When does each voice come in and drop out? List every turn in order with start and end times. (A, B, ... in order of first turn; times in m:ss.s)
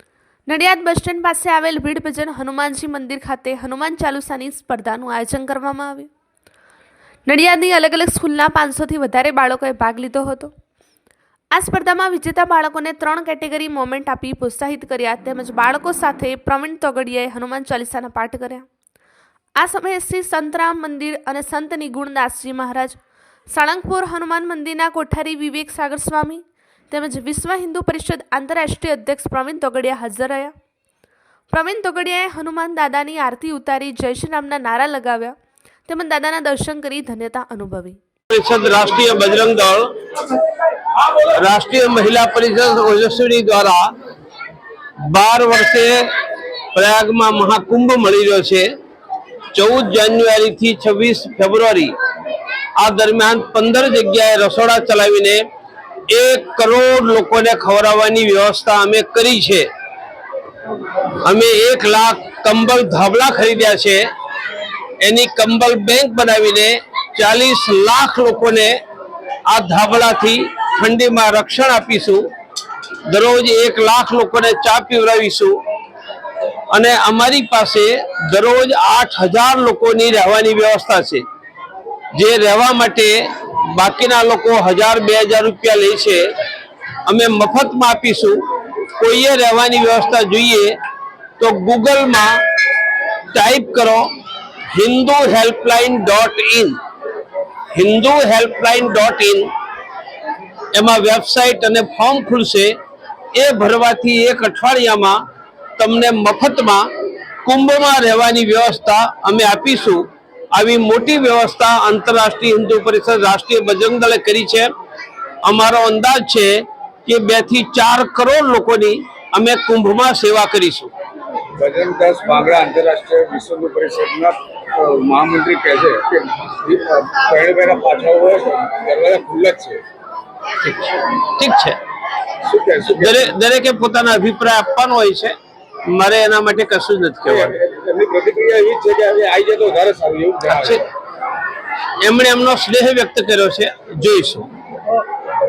0:00.5-0:06.1 A
0:07.3-0:10.5 A
0:11.5-0:18.6 A
0:19.6-0:23.0 A
0:23.5-0:30.5 A
0:31.5-0:35.3 A
0:35.9-0:38.0 A
0:38.3-0:39.9 B
0:41.0-0:43.9 B
0:45.1-0:46.1 B
0:46.7-0:48.7 B
0:49.5-0:51.9 B
0:52.8-0:55.4 B
0:56.1-0:59.6 B
1:01.2-1:04.0 B
1:05.0-1:08.8 B
1:09.5-1:12.3 B
1:13.1-1:15.6 B
1:16.7-1:21.2 B
1:22.1-1:26.2 B
1:27.0-1:28.4 B
1:29.0-1:30.8 B
1:31.4-1:32.4 B
1:33.3-1:34.1 B
1:34.7-1:36.8 B
1:37.7-1:39.5 B
1:40.7-1:42.7 B
1:43.3-1:45.2 B
1:45.8-1:46.9 B
1:47.4-1:54.7 B
1:55.4-2:00.9 B
2:01.6-2:09.8 C
2:10.6-2:11.8 B
2:12.4-2:13.3 C
2:12.9-2:15.3 B
2:15.9-2:17.5 B
2:17.3-2:20.8 C
2:20.5-2:20.8 B
2:22.0-2:24.5 B